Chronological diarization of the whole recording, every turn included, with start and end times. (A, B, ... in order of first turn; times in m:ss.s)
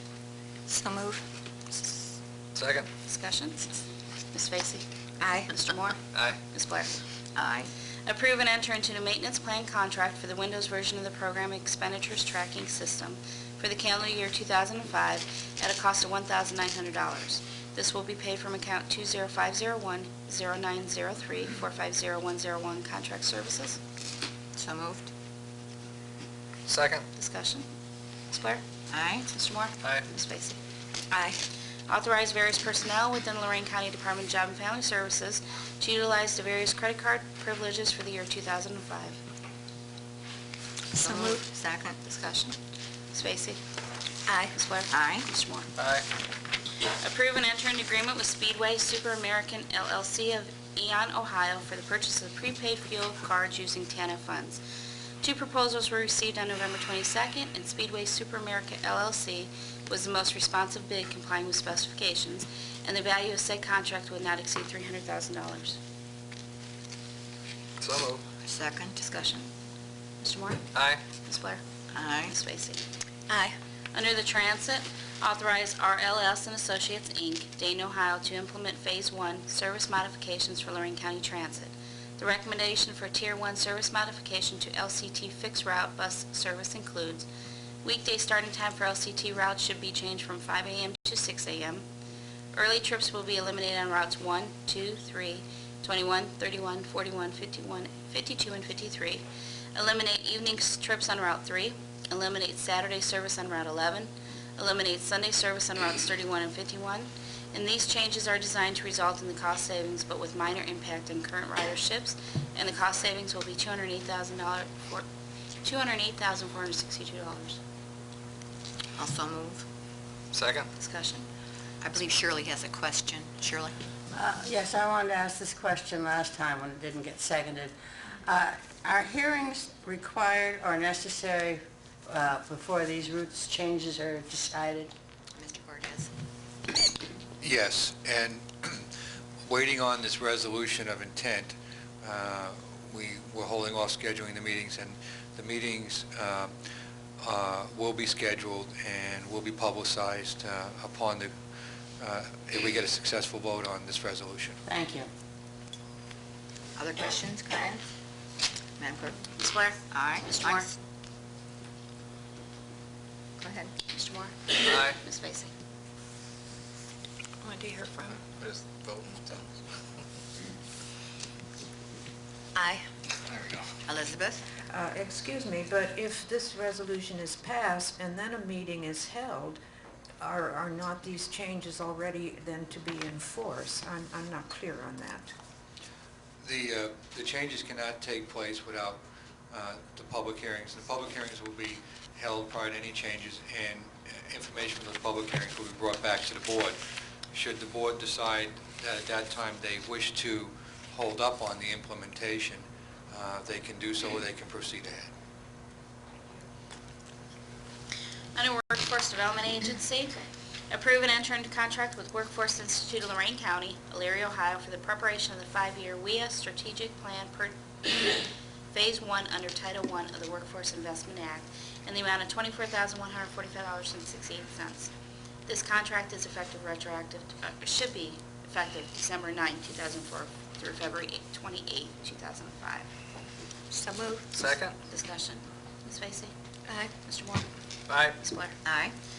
0:00.7-0:01.2 A
0:02.6-0:02.9 B
0:03.1-0:03.7 C
0:04.3-0:06.9 C
0:05.2-0:05.5 A
0:06.1-0:06.4 B
0:07.4-0:07.7 A
0:08.1-0:23.8 C
0:24.6-0:25.1 A
0:26.7-0:27.1 B
0:27.2-0:27.7 C
0:28.3-0:28.6 C
0:28.9-0:29.3 A
0:29.2-0:30.6 C
0:31.1-0:31.4 A
0:31.9-0:39.2 C
0:40.9-0:42.0 A
0:41.1-0:41.4 C
0:42.0-0:42.6 C
0:43.1-0:43.6 C
0:44.3-0:45.3 A
0:44.4-0:45.7 C
0:45.8-0:46.1 B
0:46.9-0:54.6 C
0:55.2-1:05.8 C
1:07.8-1:08.3 B
1:08.4-1:09.0 A
1:09.0-1:09.5 C
1:10.2-1:10.6 C
1:10.7-1:11.0 B
1:11.2-1:11.6 C
1:11.9-1:12.4 A
1:12.2-1:12.8 C
1:13.3-1:13.6 A
1:13.9-1:27.3 C
1:27.8-1:31.8 C
1:32.5-1:39.2 C
1:39.8-1:55.1 C
1:55.6-1:57.6 C
1:59.0-1:59.6 A
2:00.3-2:00.7 B
2:00.8-2:01.2 C
2:01.8-2:03.8 A
2:04.1-2:14.9 D
2:15.4-2:16.1 A
2:17.4-2:18.8 E
2:19.5-2:26.5 E
2:27.2-2:31.3 E
2:32.0-2:34.6 E
2:34.7-2:35.1 D
2:36.8-2:37.8 A
2:38.8-2:39.2 A
2:39.4-2:40.7 C
2:39.9-2:40.7 A
2:43.4-2:43.7 A
2:43.9-2:45.5 C
2:44.6-2:45.0 B
2:47.4-2:48.1 A
2:48.3-2:49.5 B
2:52.6-2:52.8 A
2:53.3-2:53.7 B
2:53.9-2:54.4 A
2:54.7-2:59.6 F
3:00.2-3:05.3 F
3:06.4-3:16.8 E
3:17.3-3:25.1 E
3:28.4-3:30.2 C
3:30.7-3:38.2 C
3:38.7-3:44.9 C
3:45.5-3:52.9 C
3:53.7-3:54.3 A
3:54.3-3:54.8 B
3:54.8-3:56.3 C
3:56.9-3:57.5 C
3:57.9-3:58.2 B
3:58.2-3:58.6 C
3:58.6-3:58.9 A